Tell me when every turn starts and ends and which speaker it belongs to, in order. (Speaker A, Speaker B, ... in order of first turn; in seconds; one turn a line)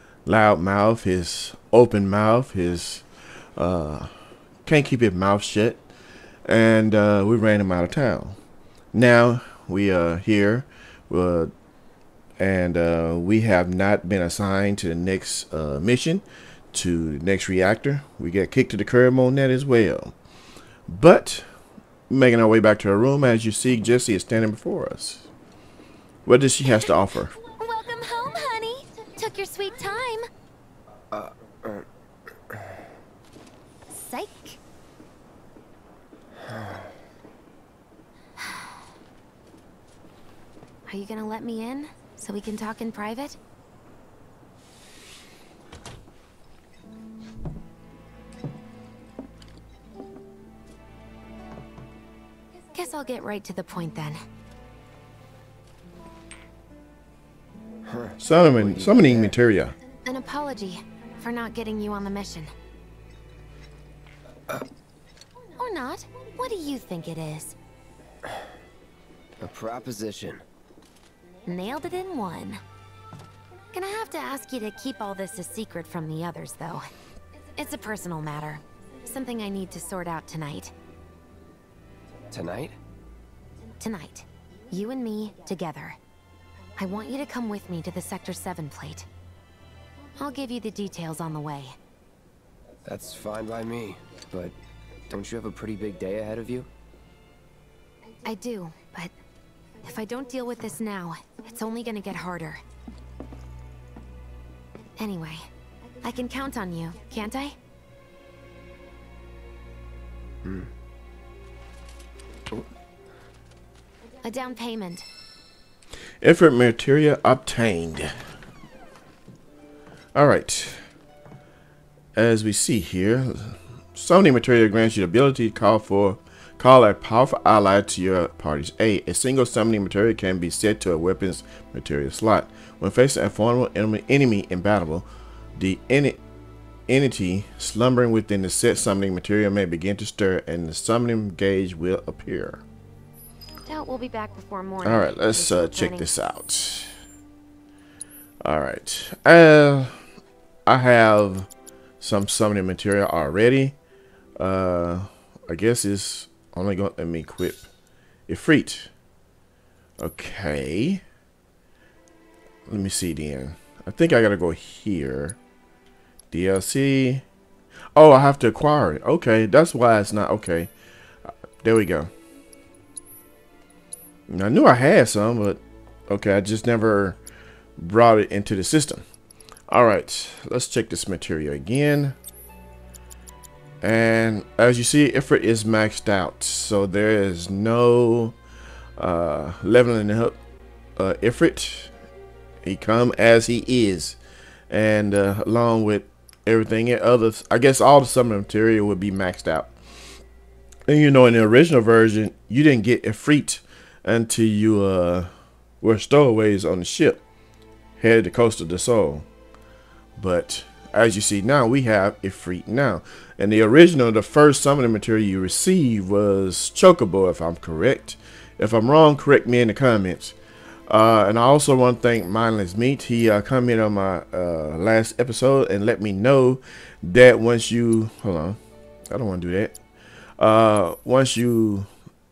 Speaker A: 0.3-3.0
Speaker A: 3.6-4.1
Speaker A: 4.7-5.8
Speaker A: 6.5-8.4
Speaker A: 8.9-11.5
Speaker A: 12.4-20.1
Speaker A: 20.9-21.5
Speaker A: 22.1-25.3
Speaker A: 26.3-27.3
Speaker B: 26.7-30.2
Speaker C: 31.1-31.9
Speaker B: 33.9-34.6
Speaker B: 40.9-43.4
Speaker B: 52.7-54.2
Speaker C: 57.9-59.4
Speaker A: 58.2-59.8
Speaker B: 60.0-62.5
Speaker B: 65.6-67.6
Speaker C: 69.4-70.4
Speaker B: 71.5-72.6
Speaker B: 73.7-76.9
Speaker B: 77.6-80.7
Speaker C: 82.3-82.8
Speaker B: 83.8-86.0
Speaker B: 86.8-89.1
Speaker B: 90.2-91.8
Speaker C: 92.8-94.6
Speaker C: 95.1-96.7
Speaker B: 98.2-99.1
Speaker B: 99.8-102.6
Speaker B: 105.0-105.5
Speaker B: 106.0-107.6
Speaker C: 110.4-110.7
Speaker B: 114.2-115.1
Speaker A: 116.2-118.1
Speaker A: 120.2-120.8
Speaker A: 122.2-136.2
Speaker A: 136.9-142.6
Speaker B: 143.7-146.2
Speaker A: 144.8-146.9
Speaker A: 148.4-150.0
Speaker A: 150.7-151.5
Speaker A: 152.0-153.8
Speaker A: 154.4-157.7
Speaker A: 158.3-158.9
Speaker A: 160.0-161.0
Speaker A: 162.7-165.4
Speaker A: 166.3-167.2
Speaker A: 167.9-170.7
Speaker A: 171.6-172.1
Speaker A: 174.3-177.2
Speaker A: 177.8-179.0
Speaker A: 179.7-182.2
Speaker A: 183.8-188.4
Speaker A: 189.0-190.4
Speaker A: 191.0-191.9
Speaker A: 192.6-194.2
Speaker A: 194.7-199.7
Speaker A: 200.9-207.2
Speaker A: 208.0-209.3
Speaker A: 210.2-220.3
Speaker A: 220.9-228.6
Speaker A: 229.1-229.8
Speaker A: 230.4-231.9